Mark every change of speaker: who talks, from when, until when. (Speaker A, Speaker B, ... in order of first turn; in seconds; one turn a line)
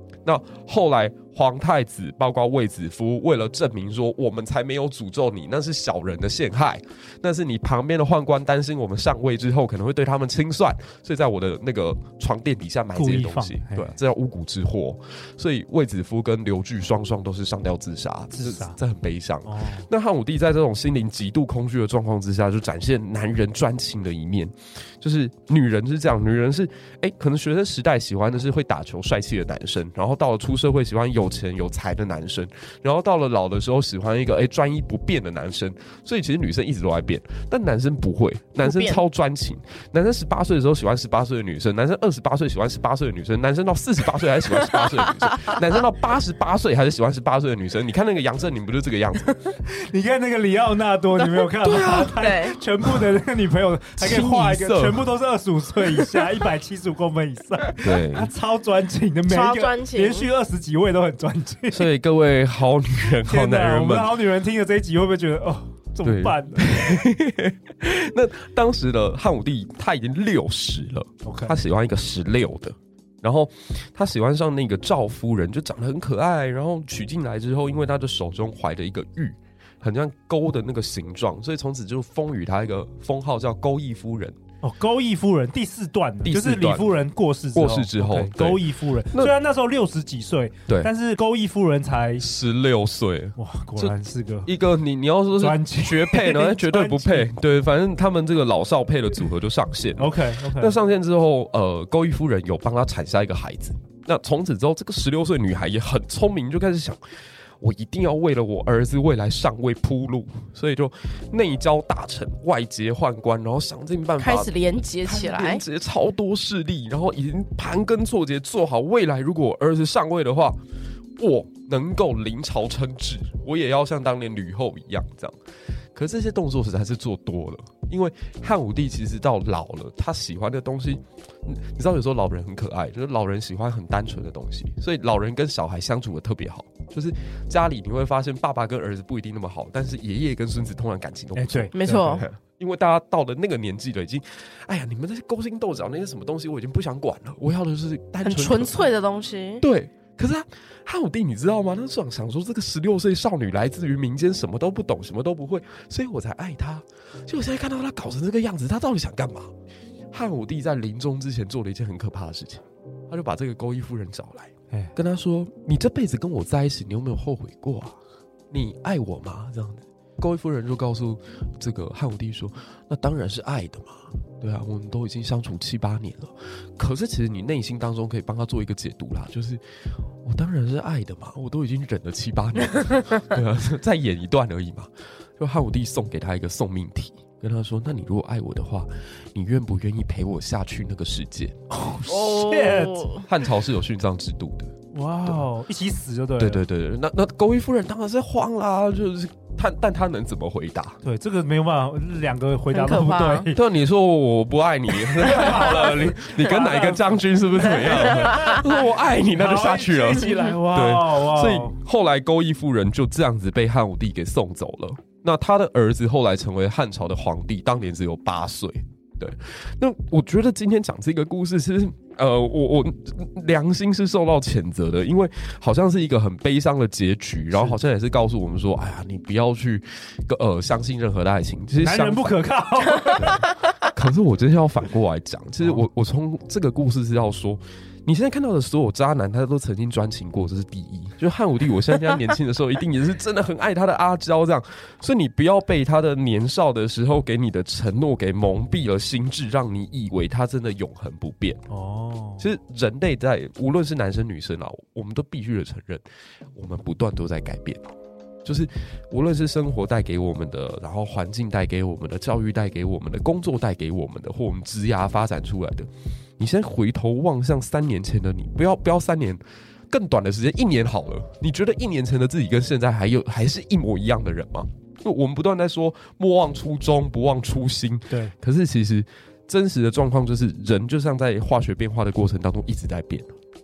Speaker A: 0.2-49.3
Speaker B: 12.9-13.9
Speaker B: 18.3-18.8
Speaker B: 19.4-19.9
Speaker C: 38.6-39.0
Speaker C: 44.7-45.6
Speaker B: 49.6-61.9
Speaker C: 51.2-52.6
Speaker A: 51.6-52.2
Speaker A: 54.0-55.0
Speaker A: 57.8-58.3
Speaker C: 59.3-60.3
Speaker A: 61.7-64.1
Speaker B: 63.2-67.0
Speaker A: 66.0-84.4
Speaker B: 71.2-71.6
Speaker B: 84.6-92.3
Speaker A: 86.2-89.3
Speaker A: 92.2-93.9
Speaker B: 93.3-94.5
Speaker A: 94.5-107.0
Speaker B: 95.4-97.3
Speaker B: 100.0-100.8
Speaker A: 107.6-120.6
Speaker C: 114.2-115.6
Speaker A: 121.2-125.4
Speaker A: 125.9-148.9
Speaker B: 141.3-142.2
Speaker C: 141.7-142.2
Speaker C: 148.2-149.6
Speaker A: 149.6-159.5
Speaker A: 160.1-168.0
Speaker A: 168.5-179.6
Speaker A: 180.2-191.6
Speaker B: 191.7-193.1
Speaker C: 192.0-193.3
Speaker A: 193.2-194.7
Speaker B: 194.9-196.6
Speaker A: 196.4-201.0
Speaker B: 201.0-203.6
Speaker C: 202.7-203.5
Speaker A: 203.5-232.3
Speaker B: 205.1-208.8
Speaker C: 208.2-208.6
Speaker B: 209.3-211.7
Speaker B: 231.8-233.4
Speaker A: 233.2-251.6
Speaker B: 251.7-252.4
Speaker A: 252.4-256.0
Speaker A: 256.5-257.9
Speaker A: 258.4-283.3